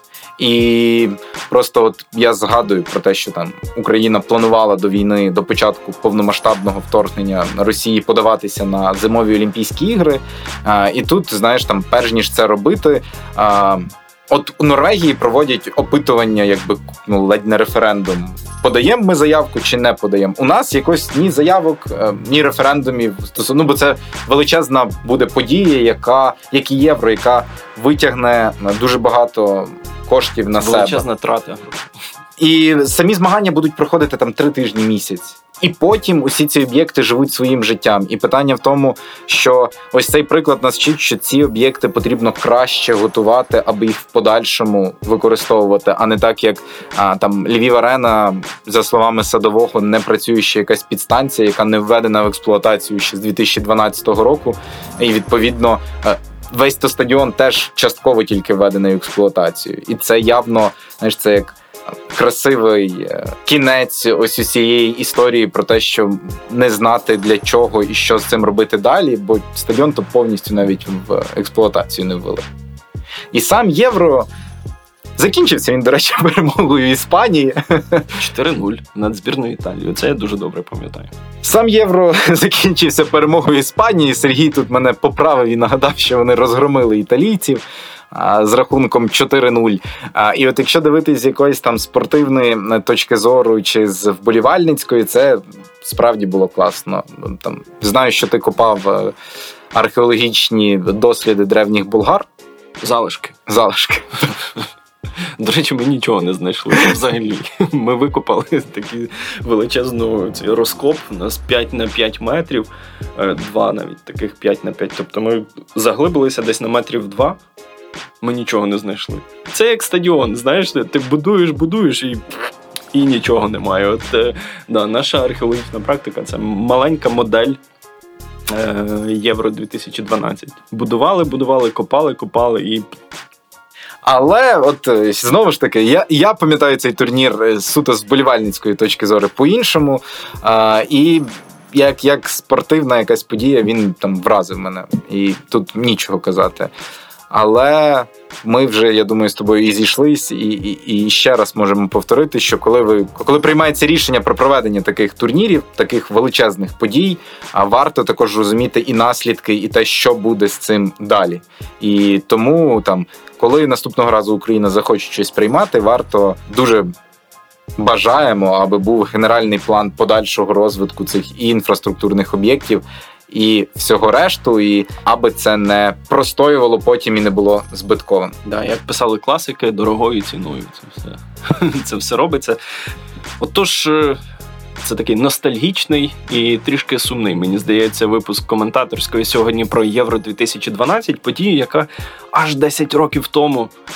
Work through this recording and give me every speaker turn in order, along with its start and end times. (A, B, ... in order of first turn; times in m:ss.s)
0:00.4-0:31.0 A
0:30.6-0:31.8 B
0:32.4-1:01.6 A
1:02.1-1:12.4 A
1:13.3-1:14.3 A
1:15.2-1:18.1 A
1:18.1-1:21.1 B
1:21.4-1:39.1 A
1:39.7-1:42.3 A
1:42.8-1:43.4 B
1:43.5-1:44.3 A
1:45.4-1:57.4 B
1:58.2-2:02.4 B
2:02.9-2:07.6 B
2:08.5-2:12.8 B
2:14.0-2:26.7 A
2:27.3-2:46.9 A
2:47.8-2:58.3 A
2:58.4-3:02.6 B
3:03.4-3:04.2 B
3:04.8-3:13.7 B